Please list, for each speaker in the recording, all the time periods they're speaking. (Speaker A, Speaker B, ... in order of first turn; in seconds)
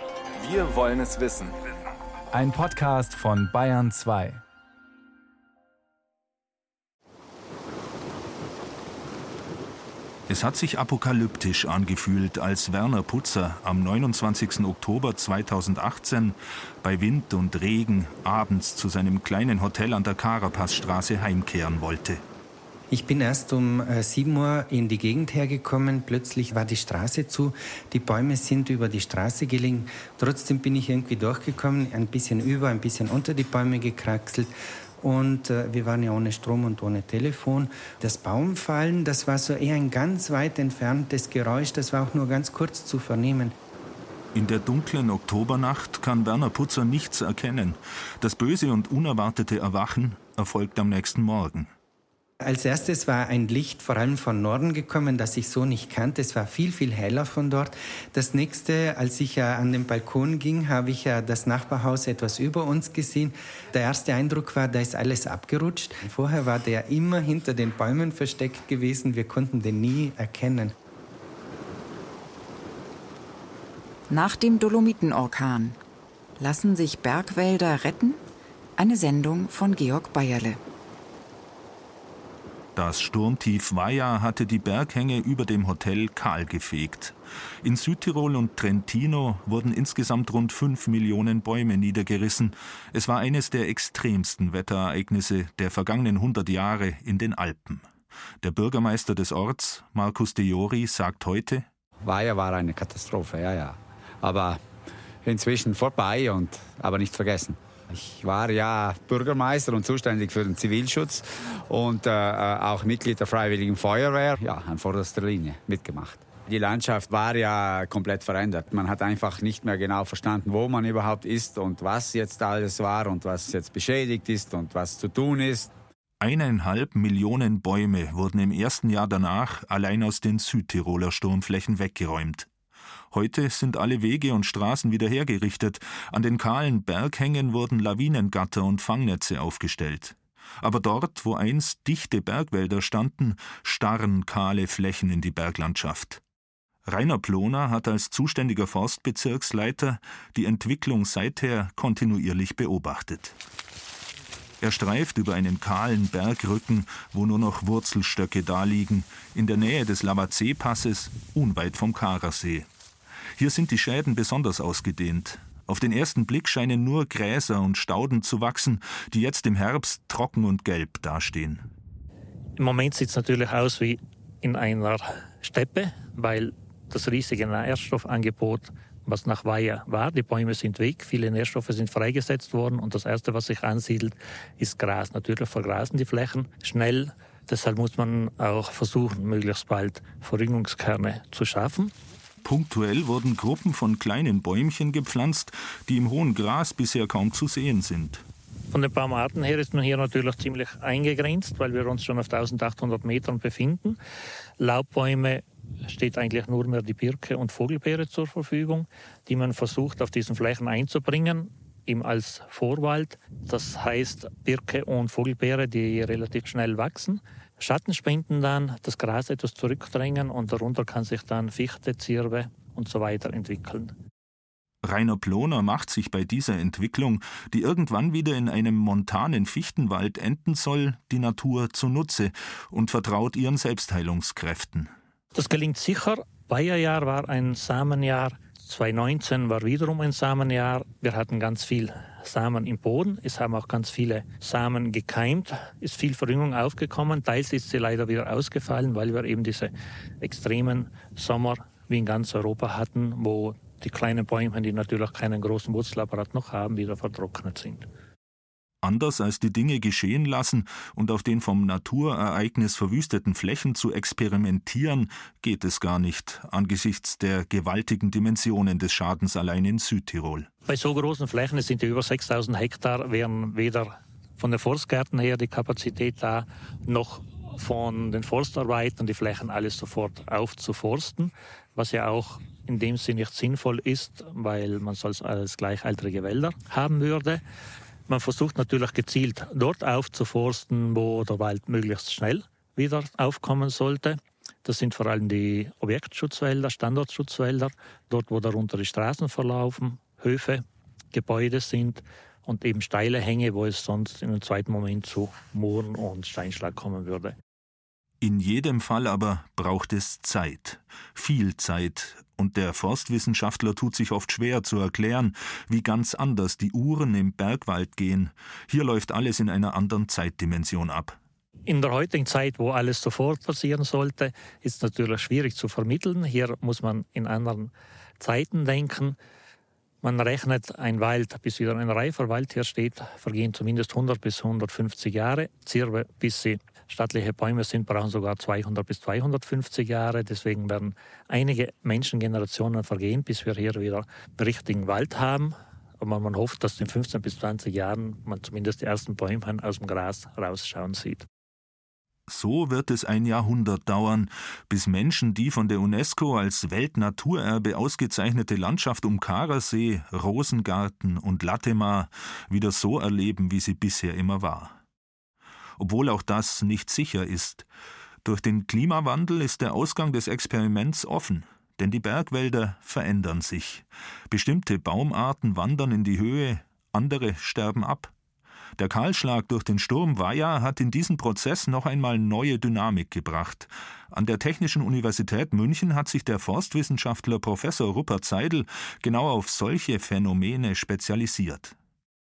Speaker A: 0.4-1.6, 2.3-4.4
Speaker B: 10.3-22.2, 44.4-51.7, 82.8-97.9, 98.4-101.7, 126.2-132.5, 133.1-146.2, 146.9-153.4, 154.6-162.7, 163.4-171.6, 192.4-198.2, 224.8-234.9, 258.8-270.5, 308.2-321.2, 352.3-364.8, 365.8-367.7, 368.2-378.1, 378.8-391.8
Speaker C: 22.9-43.5, 52.4-70.7
Speaker D: 74.1-75.8, 76.4-78.2, 78.8-80.6
Speaker E: 102.0-104.6, 105.2-125.7
Speaker F: 172.6-191.9, 198.7-204.0, 204.6-223.9, 235.3-257.9, 270.7-287.4, 288.1-307.4, 321.7-329.2, 330.0-351.3